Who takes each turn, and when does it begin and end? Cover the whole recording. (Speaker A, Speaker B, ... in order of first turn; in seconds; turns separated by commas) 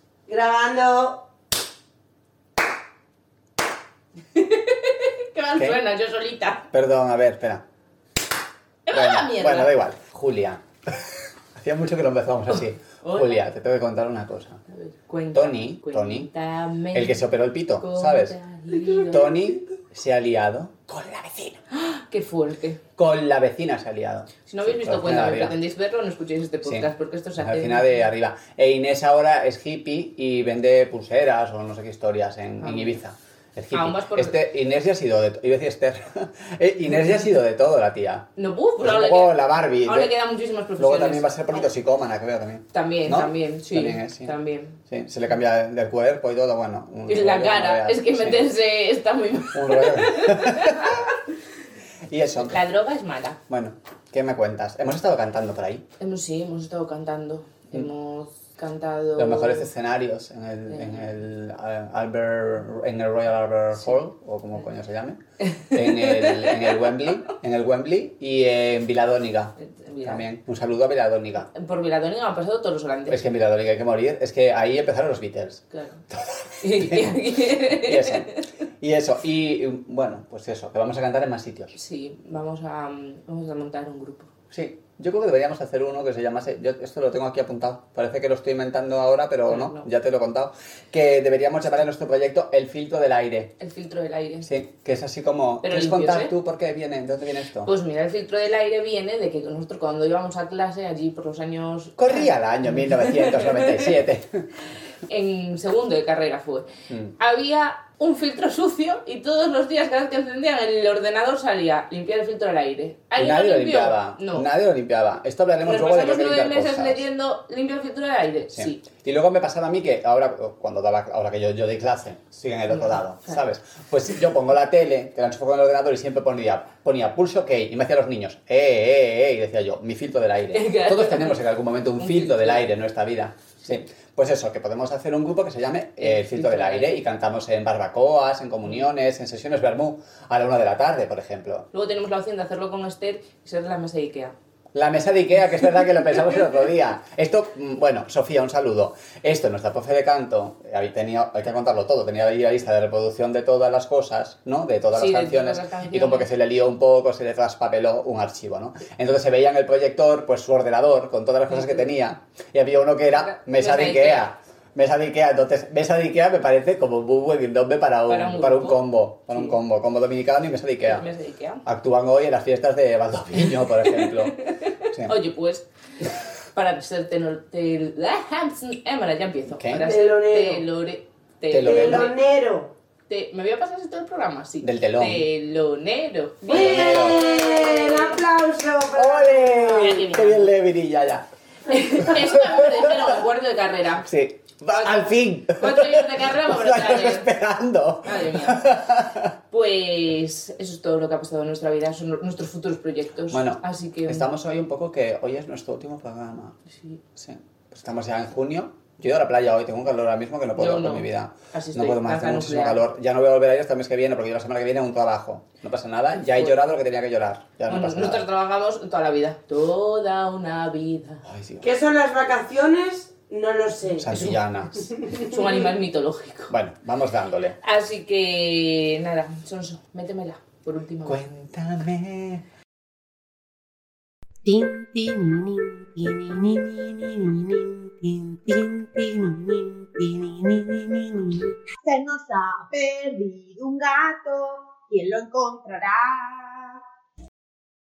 Speaker A: 0.3-1.2, Speaker B: 4.3-6.6, Speaker C: 6.7-7.6, Speaker B: 8.9-9.7, Speaker C: 8.9-14.6, Speaker B: 13.0-13.4, Speaker B: 14.7-17.2, Speaker C: 15.3-16.3, Speaker C: 16.9-21.6, Speaker B: 17.8-19.6, Speaker B: 21.7-22.8, Speaker C: 23.0-25.6, Speaker B: 24.4-28.0, Speaker C: 27.4-38.3, Speaker B: 32.6-33.0, Speaker B: 33.7-34.4, Speaker B: 38.4-41.3, Speaker C: 38.8-40.1, Speaker C: 40.8-44.3, Speaker B: 42.7-44.8, Speaker C: 44.8-48.4, Speaker B: 47.1-51.1, Speaker C: 49.5-51.1, Speaker C: 52.1-52.6, Speaker B: 52.4-53.4, Speaker C: 53.5-55.8, Speaker B: 56.0-59.7, Speaker C: 59.2-65.2, Speaker B: 60.7-61.0, Speaker B: 65.4-67.0, Speaker C: 65.7-69.5, Speaker B: 69.6-70.2, Speaker C: 70.0-71.5, Speaker B: 71.5-73.2, Speaker C: 73.1-78.3, Speaker B: 75.7-76.0, Speaker B: 76.6-78.4, Speaker C: 78.8-81.7, Speaker B: 81.7-84.3, Speaker C: 84.5-93.5, Speaker B: 89.5-89.8, Speaker B: 93.6-94.5, Speaker C: 94.4-97.7, Speaker B: 95.6-96.3, Speaker B: 97.6-103.9, Speaker C: 102.0-104.5, Speaker B: 105.1-114.4, Speaker C: 113.2-117.0, Speaker B: 115.6-118.8, Speaker C: 118.5-141.7, Speaker B: 122.7-123.4, Speaker B: 130.5-131.4, Speaker B: 132.0-132.7, Speaker B: 136.0-137.0, Speaker B: 141.7-144.3, Speaker C: 144.7-171.1, Speaker B: 154.9-156.3, Speaker B: 161.5-161.9, Speaker B: 163.2-164.3, Speaker B: 168.1-169.6, Speaker B: 170.8-171.6, Speaker C: 171.6-174.3, Speaker B: 173.6-175.7, Speaker B: 176.5-182.1, Speaker C: 179.5-179.8, Speaker A: 179.8-180.6, Speaker C: 181.5-182.1, Speaker A: 181.6-182.7, Speaker B: 183.1-188.2, Speaker C: 184.6-185.2, Speaker A: 186.5-190.0, Speaker C: 186.5-187.2, Speaker C: 188.9-191.2, Speaker B: 189.7-190.5, Speaker B: 191.7-194.1, Speaker C: 191.8-193.2, Speaker C: 194.0-199.3, Speaker B: 194.7-197.3, Speaker B: 198.0-198.7, Speaker B: 199.5-204.3, Speaker C: 203.3-206.6, Speaker C: 207.1-218.2, Speaker B: 210.6-212.8, Speaker B: 216.2-216.7, Speaker B: 217.7-221.2, Speaker C: 221.2-221.7, Speaker A: 221.6-224.1, Speaker C: 224.0-224.9, Speaker B: 224.1-224.4, Speaker A: 225.0-225.3, Speaker B: 225.1-226.5, Speaker C: 226.5-227.6, Speaker B: 227.6-231.2, Speaker C: 231.1-232.4, Speaker D: 234.4-241.5, Speaker E: 241.8-246.8